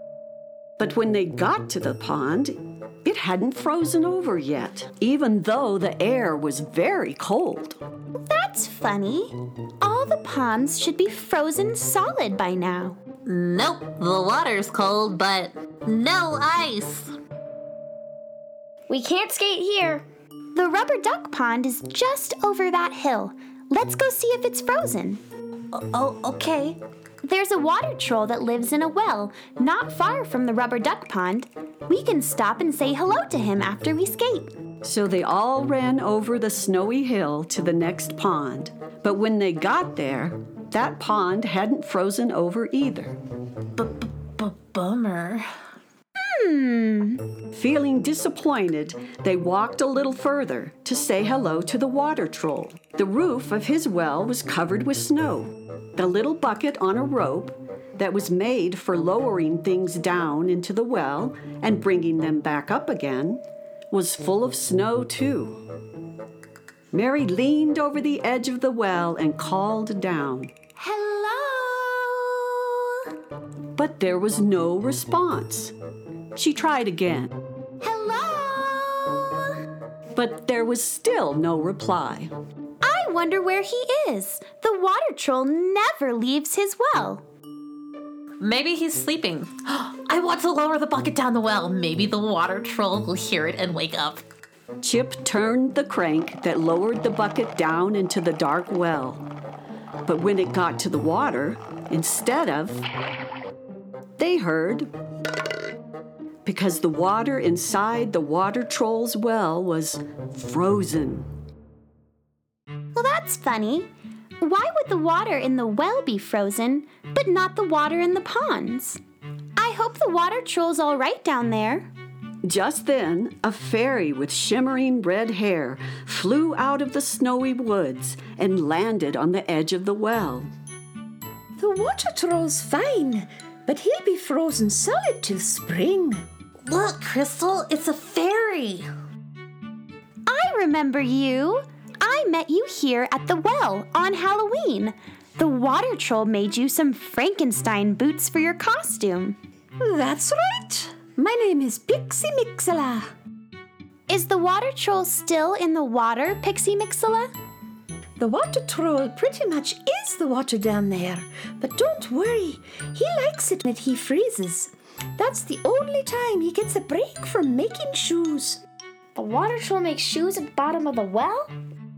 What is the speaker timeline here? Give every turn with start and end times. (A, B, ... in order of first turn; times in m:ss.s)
0:00.8-0:07.8 A
0:08.2-0:13.0 B
0:13.2-0:17.1 C
0:18.9-0:20.0 D
0:20.5-0:25.2 B
0:25.7-0:26.8 C
0:27.2-0:34.5 B
0:34.8-0:43.2 A
0:43.8-0:45.5 C
0:46.2-0:47.2 B
0:47.5-1:05.6 A
1:06.9-1:10.5 A
1:10.8-1:13.0 B
1:13.8-1:15.7 A
1:16.3-1:17.3 A
1:17.8-1:19.5 B
1:20.1-1:22.3 A
1:22.8-1:27.2 B
1:28.4-1:34.2 C
1:34.8-1:39.3 A
1:40.0-1:42.8 A
1:44.2-1:44.9 A
1:46.4-1:51.3 A
1:52.9-1:53.9 B
1:54.4-1:59.0 B
1:59.6-2:01.9 B
2:02.4-2:10.5 A
2:11.6-2:16.2 E
2:16.6-2:18.9 C
2:20.3-2:29.4 B
2:29.8-2:33.1 E
2:34.1-2:37.3 B
2:38.2-2:48.6 E
2:49.1-2:51.5 D